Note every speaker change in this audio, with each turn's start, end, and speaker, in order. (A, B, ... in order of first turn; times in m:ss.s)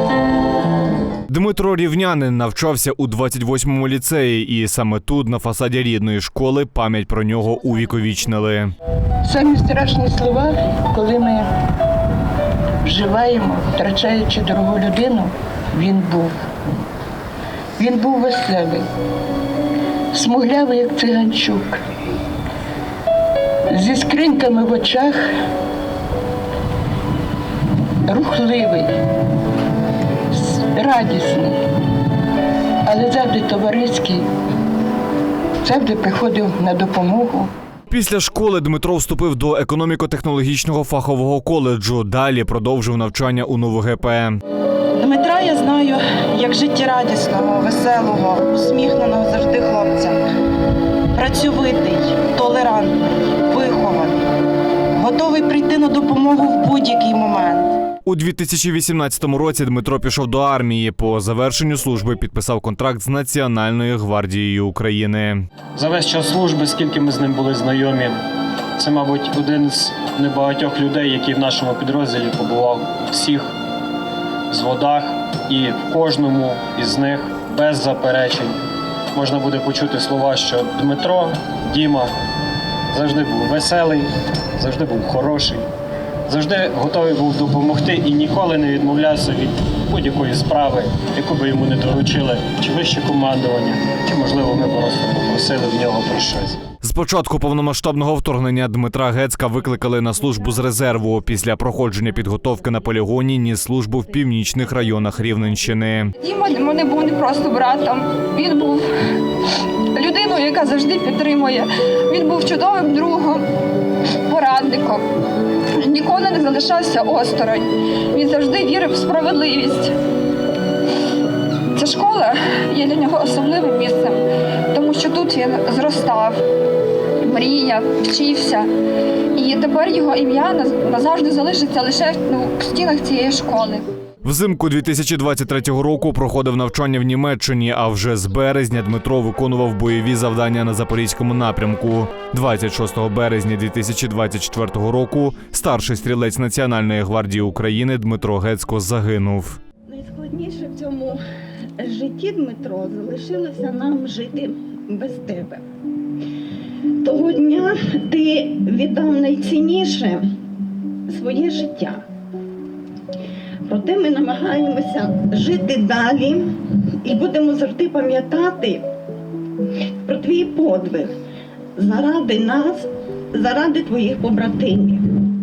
0:01.3-0:08.7 A
0:09.2-0:11.5 B
0:12.8-0:16.3 B
0:17.8-0:18.8 B
0:20.1-0:21.8 B
0:23.7-0:25.3 B
0:28.1-0:28.9 B
0:30.3-0:31.6 B
0:32.8-0:34.2 B
0:35.6-0:37.5 B
0:37.9-0:44.4 A
0:45.0-0:50.2 C
0:51.1-0:54.2 C
0:55.0-0:57.7 C
0:58.0-1:05.4 A
1:05.8-1:08.2 D
1:08.8-1:13.5 D
1:14.5-1:18.6 D
1:19.1-1:22.1 D
1:22.9-1:25.6 D
1:26.3-1:36.6 D
1:36.8-1:46.1 A
1:46.2-1:49.3 E
1:49.9-1:53.5 E
1:54.2-1:55.0 E
1:55.8-1:59.9 E
2:01.7-2:06.4 E
2:07.2-2:08.7 E
2:09.3-2:13.8 E
2:14.2-2:29.6 A
2:29.9-2:31.2 F
2:31.8-2:35.6 F
2:37.0-2:40.2 F
2:41.1-2:42.0 F
2:43.6-2:48.9 F
2:50.0-2:51.2 F
2:51.8-2:55.1 F